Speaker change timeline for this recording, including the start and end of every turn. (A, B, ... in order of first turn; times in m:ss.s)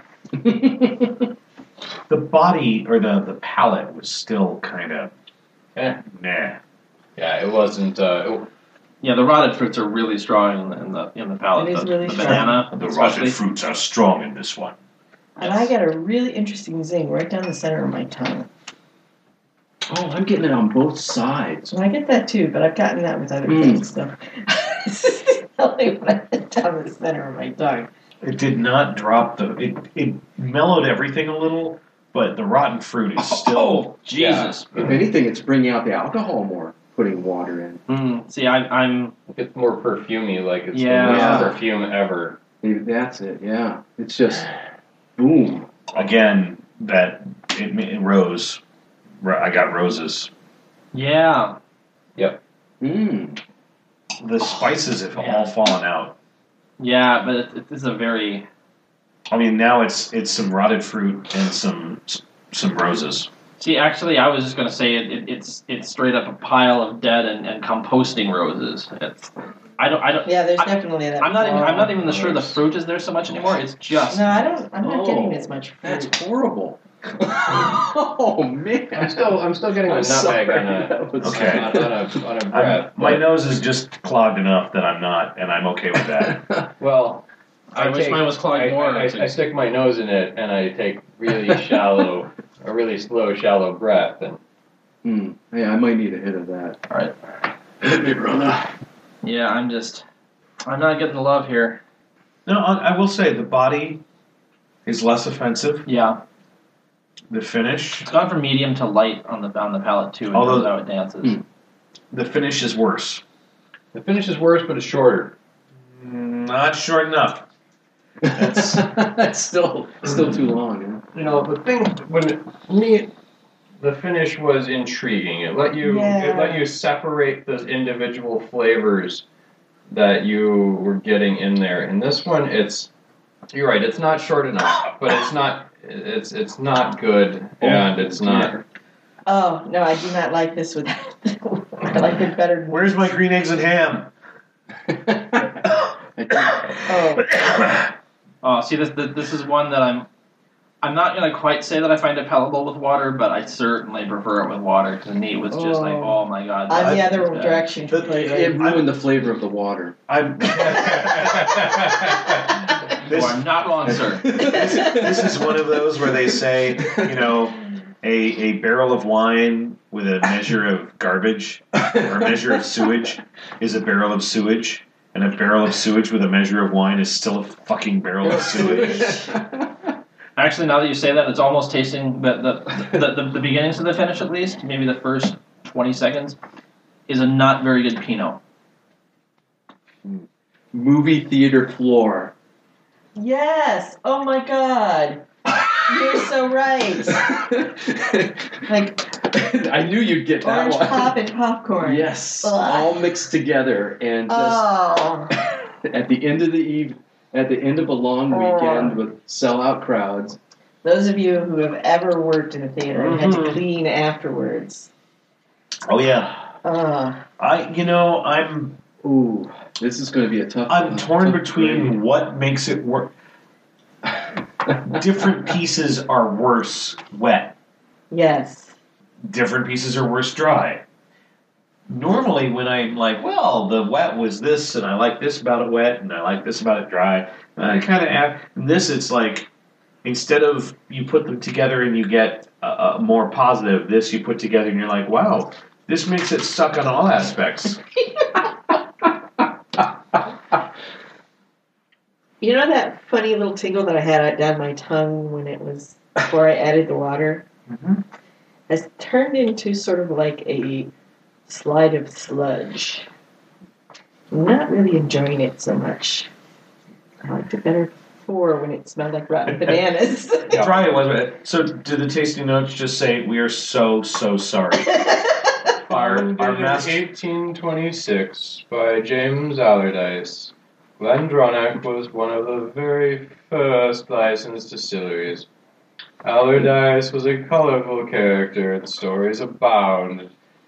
0:00.3-0:01.3 A
0:02.1-0:05.1 B
0:05.8-0:06.0 C
0:06.0-0:06.6 B
0:07.2-0:08.5 C
0:09.0-0:13.4 D
0:11.6-0:12.6 E
0:12.2-0:14.7 B
0:15.4-0:18.5 E
0:19.9-0:21.7 A
0:21.7-0:27.9 E
0:23.4-0:23.8 A
0:28.2-0:33.9 B
0:33.2-0:34.7 D
0:34.1-0:34.9 C
0:34.7-0:37.8 A
0:37.9-0:39.1 D
0:39.3-0:42.4 C
0:40.7-0:41.5 D
0:41.0-0:41.6 A
0:42.6-0:44.6 A
0:45.2-0:45.7 A
0:45.9-0:48.6 B
0:49.2-0:50.3 B
0:50.9-0:51.6 D
0:52.8-0:53.4 A
0:54.2-0:56.1 B
0:55.2-0:55.5 D
0:56.8-0:58.5 D
0:59.3-1:03.3 B
1:03.6-1:14.4 D
1:10.2-1:11.9 E
1:12.0-1:12.5 C
1:14.1-1:16.2 E
1:14.8-1:22.1 A
1:18.9-1:23.2 C
1:21.2-1:21.8 B
1:22.5-1:26.4 B
1:26.1-1:26.7 A
1:26.8-1:34.4 C
1:27.7-1:29.4 D
1:35.0-1:36.8 A
1:36.9-1:37.1 D
1:37.8-1:38.7 A
1:39.2-1:40.0 D
1:40.6-1:41.8 D
1:42.4-1:44.0 B
1:44.8-1:45.9 B
1:45.8-1:46.2 D
1:47.3-1:48.1 B
1:48.0-1:51.4 D
1:50.3-1:50.7 B
1:52.1-1:53.2 B
1:53.9-1:55.3 C
1:55.9-1:57.4 B
1:58.2-2:01.0 A
1:58.4-1:58.7 B
2:01.1-2:03.1 C
2:03.8-2:09.2 C
2:05.8-2:06.6 E
2:09.9-2:12.9 C
2:13.5-2:18.6 C
2:17.6-2:18.6 A
2:19.2-2:23.1 E
2:22.7-2:24.1 B
2:24.9-2:26.8 A
2:26.8-2:27.4 E
2:27.2-2:27.9 B
2:28.4-2:30.1 D
2:30.8-2:37.6 D
2:35.5-2:38.6 E
2:37.8-2:38.9 B
2:38.2-2:40.0 A
2:40.1-2:41.7 B
2:40.5-2:42.4 C
2:43.0-2:59.3 B
2:43.0-2:44.4 D
2:44.2-2:46.1 A
2:46.8-2:47.1 A
2:58.2-2:59.7 A
2:58.8-2:59.2 E
3:00.4-3:06.4 D
3:07.1-3:08.4 D
3:10.0-3:12.3 A
3:13.2-3:15.2 E
3:15.8-3:17.3 E
3:17.0-3:21.2 A
3:18.6-3:19.1 E
3:20.4-3:22.9 E
3:21.8-3:24.7 A
3:24.3-3:25.3 E
3:25.5-3:30.4 A
3:28.3-3:29.0 E
3:30.8-3:34.9 E
3:32.9-3:33.4 B
3:35.8-3:36.3 B
3:36.6-3:37.2 E
3:37.4-3:38.8 B
3:39.0-3:42.0 A
3:40.7-3:43.1 B
3:44.8-3:47.5 B
3:48.1-3:48.7 E
3:49.2-3:50.8 B
3:51.9-3:59.5 B
4:00.0-4:07.8 B
4:12.4-4:17.4 E
4:17.7-4:18.0 B
4:18.7-4:20.9 E
4:21.5-4:23.1 E
4:24.3-4:26.3 E
4:27.2-4:30.7 E
4:30.5-4:34.9 B
4:34.8-4:35.6 E
4:35.9-4:37.0 B
4:35.9-4:45.4 C
4:46.2-4:50.3 C